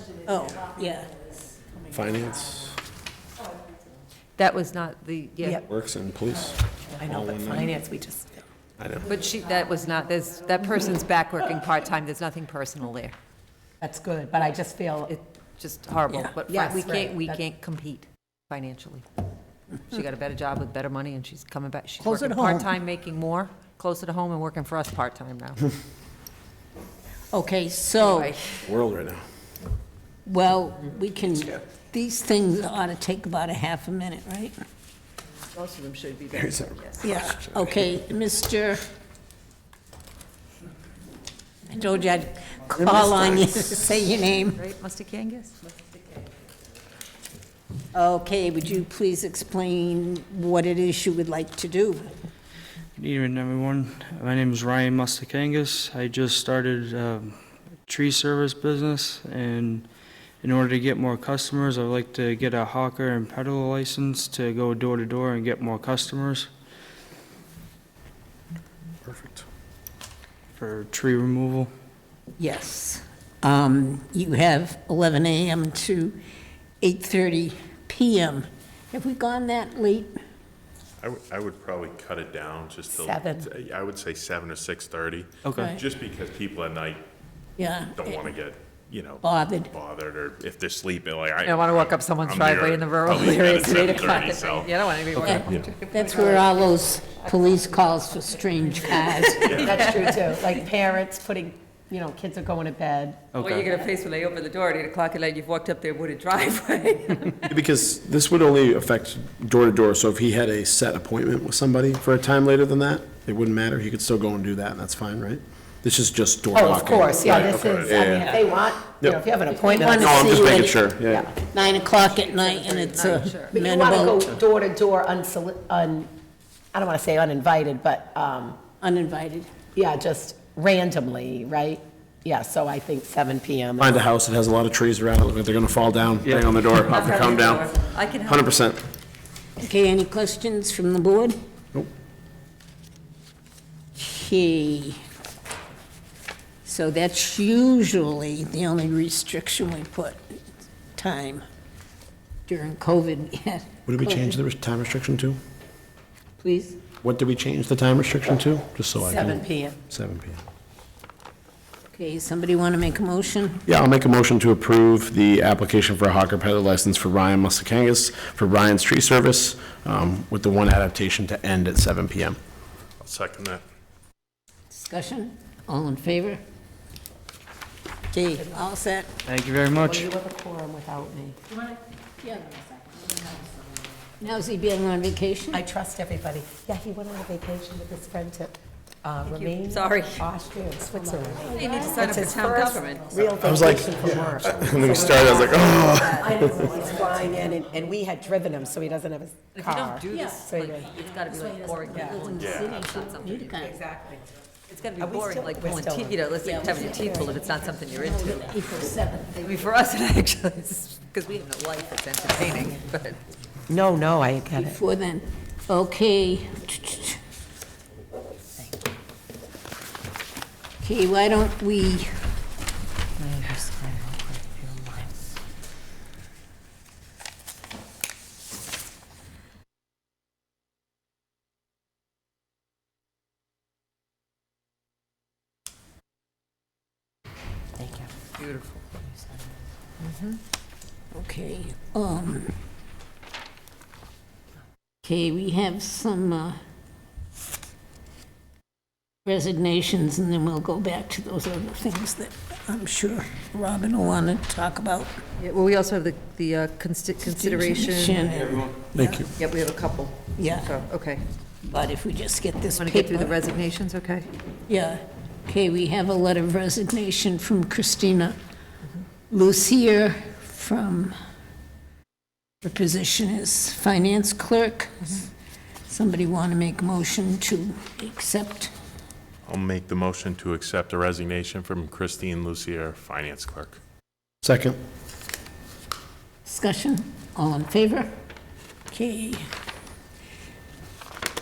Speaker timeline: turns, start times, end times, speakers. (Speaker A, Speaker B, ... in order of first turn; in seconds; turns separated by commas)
Speaker A: 0.2-1.1, Speaker B: 1.9-2.8, Speaker C: 4.4-5.6, Speaker B: 5.7-7.7, Speaker D: 7.0-8.4, Speaker B: 8.8-9.1, Speaker C: 9.1-13.1, Speaker D: 13.8-15.1, Speaker C: 15.1-19.1, Speaker D: 16.5-17.4, Speaker C: 19.9-25.6, Speaker A: 22.0-22.7, Speaker A: 27.3-28.3, Speaker C: 28.0-28.6, Speaker B: 28.6-29.2, Speaker A: 30.2-34.5, Speaker C: 35.5-37.1, Speaker B: 36.3-37.8, Speaker A: 37.0-38.8, Speaker A: 41.7-44.6, Speaker B: 42.8-43.3, Speaker C: 44.5-46.0, Speaker A: 47.9-52.1, Speaker E: 53.0-59.9, Speaker E: 60.4-66.5, Speaker B: 69.0-69.4, Speaker E: 70.6-71.7, Speaker A: 72.4-76.2, Speaker A: 76.8-80.2, Speaker F: 81.0-87.0, Speaker D: 82.9-83.5, Speaker E: 85.4-85.7, Speaker A: 85.5-85.8, Speaker A: 87.6-88.2, Speaker F: 87.9-95.7, Speaker A: 89.2-89.7, Speaker C: 91.4-96.7, Speaker A: 93.2-94.1, Speaker A: 95.2-99.7, Speaker C: 99.0-100.5, Speaker F: 99.4-99.8, Speaker D: 99.5-103.3, Speaker E: 103.3-103.7, Speaker C: 103.4-107.5, Speaker B: 107.5-118.3, Speaker D: 116.5-121.3, Speaker F: 117.4-118.1, Speaker A: 119.5-120.8, Speaker B: 120.0-121.3, Speaker A: 121.3-124.4, Speaker C: 121.8-123.5, Speaker D: 123.5-126.1, Speaker D: 126.7-128.6, Speaker A: 128.8-129.5, Speaker D: 129.7-134.0, Speaker B: 133.8-137.7, Speaker C: 136.8-138.6, Speaker B: 138.2-138.8, Speaker A: 139.6-141.3, Speaker A: 143.9-145.0, Speaker A: 146.6-150.4, Speaker A: 150.9-151.4, Speaker A: 152.5-154.4, Speaker B: 153.9-155.4, Speaker A: 156.4-156.8, Speaker B: 157.0-160.4, Speaker D: 159.0-159.8, Speaker A: 161.9-163.6, Speaker B: 163.7-172.4, Speaker F: 173.0-173.6, Speaker A: 174.7-176.4, Speaker A: 178.1-179.1, Speaker E: 179.2-180.1, Speaker D: 179.8-181.4, Speaker A: 182.2-183.2, Speaker A: 184.2-185.6, Speaker D: 185.5-200.9, Speaker C: 189.2-190.2, Speaker A: 191.0-192.8, Speaker C: 191.5-193.1, Speaker B: 193.4-196.7, Speaker A: 196.1-197.1, Speaker C: 199.5-203.6, Speaker A: 200.1-203.8, Speaker F: 202.4-202.7, Speaker D: 203.5-204.2, Speaker C: 204.7-208.4, Speaker D: 205.0-206.2, Speaker A: 206.4-207.4, Speaker D: 206.9-207.3, Speaker A: 208.0-209.6, Speaker C: 209.4-213.2, Speaker D: 213.7-214.8, Speaker A: 214.5-217.2, Speaker A: 220.8-222.1, Speaker C: 223.2-225.1, Speaker C: 237.8-239.0, Speaker C: 240.0-240.4, Speaker A: 241.1-242.6, Speaker A: 245.0-246.6, Speaker A: 249.2-255.2, Speaker C: 255.4-258.3, Speaker A: 257.2-259.2, Speaker B: 258.9-259.3, Speaker C: 259.4-261.2, Speaker A: 260.4-260.7, Speaker A: 261.6-263.4, Speaker C: 262.8-264.3, Speaker A: 264.7-268.4, Speaker A: 269.3-271.1, Speaker A: 272.6-275.2, Speaker A: 275.9-278.7, Speaker F: 279.4-283.8, Speaker B: 284.4-284.8, Speaker A: 286.4-288.1, Speaker A: 288.9-289.4